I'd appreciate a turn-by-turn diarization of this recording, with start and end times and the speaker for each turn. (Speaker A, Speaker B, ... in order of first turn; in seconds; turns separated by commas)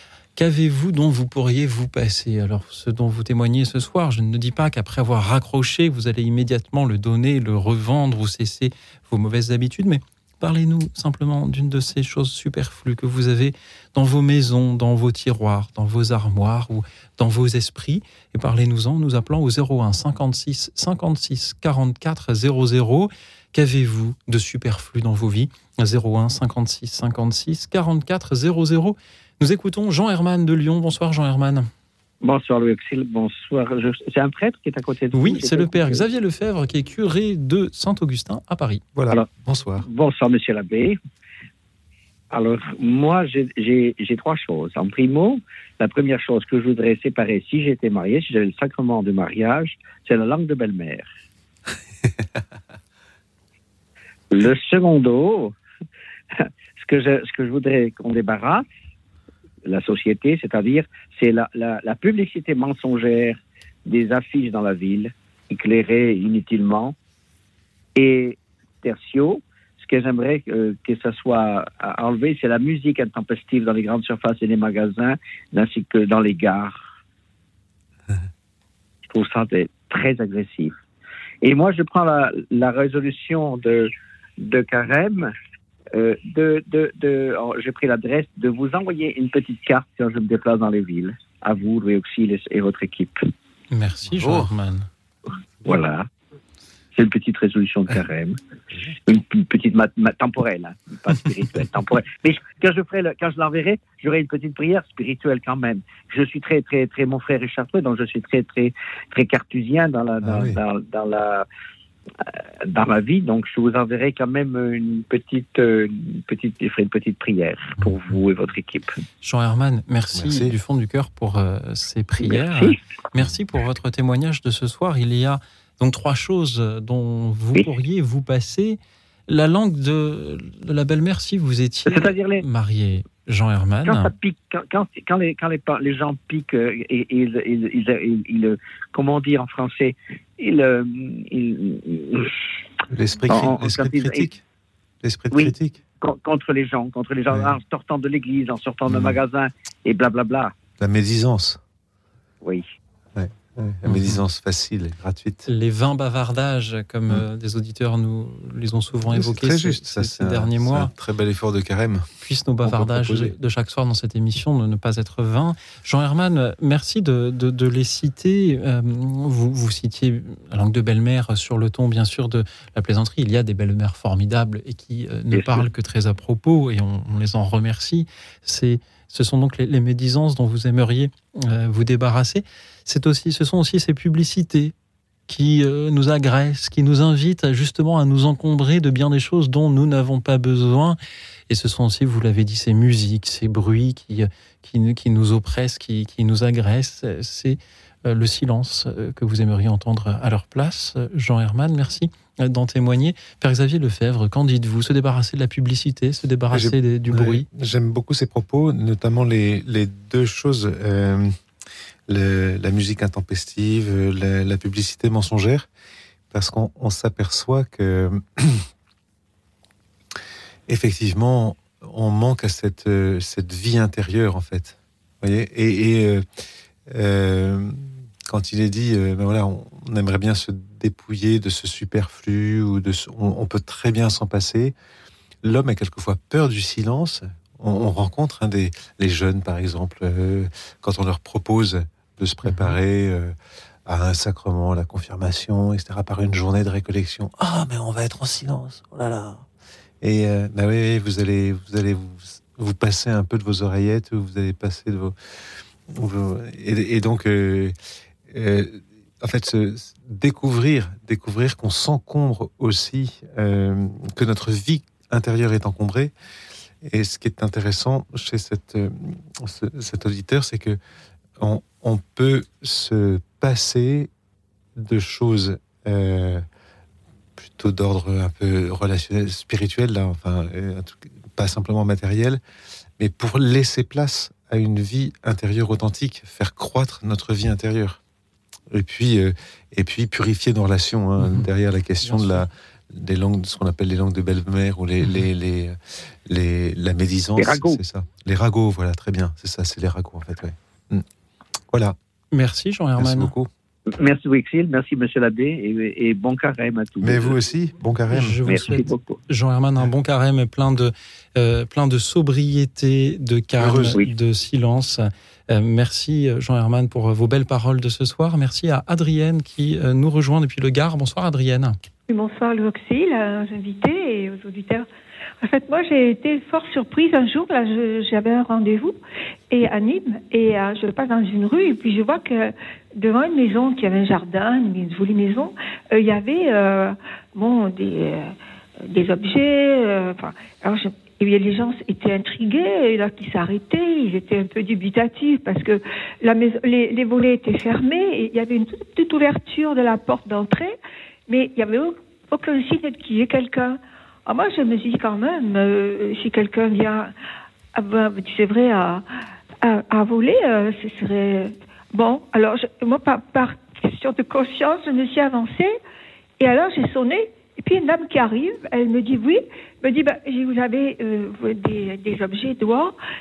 Speaker A: 0.4-31.7, Speaker B: 32.2-36.1, Speaker A: 35.1-38.8, Speaker C: 39.0-39.9, Speaker B: 39.8-41.0, Speaker B: 42.3-51.1, Speaker B: 54.3-55.5, Speaker B: 56.4-58.6, Speaker B: 59.6-67.0, Speaker B: 68.0-76.8, Speaker B: 79.1-80.7, Speaker B: 81.4-85.3, Speaker B: 85.9-93.3, Speaker A: 93.7-94.9, Speaker C: 94.1-94.5, Speaker B: 95.6-96.1, Speaker B: 97.0-98.4, Speaker B: 99.1-111.5, Speaker C: 110.2-110.6, Speaker B: 112.3-118.9, Speaker A: 119.2-134.1, Speaker C: 120.1-120.5, Speaker B: 122.2-122.8, Speaker B: 131.9-132.4, Speaker B: 133.8-142.3, Speaker C: 142.9-144.4, Speaker B: 143.3-144.3, Speaker C: 145.0-145.8, Speaker B: 145.3-150.5, Speaker C: 147.3-147.6, Speaker C: 148.9-149.2, Speaker C: 150.8-151.6, Speaker B: 152.4-152.7, Speaker C: 153.2-155.5, Speaker A: 153.9-154.2, Speaker A: 155.5-160.9, Speaker C: 159.0-162.1, Speaker A: 162.2-184.7, Speaker C: 162.6-163.3, Speaker B: 175.3-175.7, Speaker A: 185.3-191.0, Speaker A: 191.5-207.5, Speaker C: 206.5-211.3, Speaker C: 212.1-215.7, Speaker C: 216.3-218.7, Speaker C: 220.7-226.2, Speaker C: 226.9-234.8, Speaker C: 235.4-243.3, Speaker A: 242.4-242.8, Speaker C: 243.9-249.5, Speaker C: 250.0-255.2, Speaker C: 255.9-257.7, Speaker C: 258.3-266.1, Speaker C: 266.8-270.8, Speaker C: 271.4-274.1, Speaker C: 274.8-276.4, Speaker C: 277.4-282.4, Speaker C: 283.0-288.0, Speaker C: 288.7-301.1, Speaker A: 291.2-291.5, Speaker A: 292.1-292.4, Speaker B: 297.4-297.8, Speaker C: 301.7-302.0, Speaker A: 302.3-303.3, Speaker C: 303.0-303.5, Speaker B: 304.0-307.4, Speaker C: 307.0-308.4, Speaker A: 308.1-321.8, Speaker B: 308.4-309.2, Speaker C: 313.6-314.0, Speaker D: 322.1-324.9, Speaker D: 325.4-329.0, Speaker D: 329.5-357.1, Speaker D: 357.8-359.1, Speaker D: 359.6-365.8, Speaker D: 366.4-373.0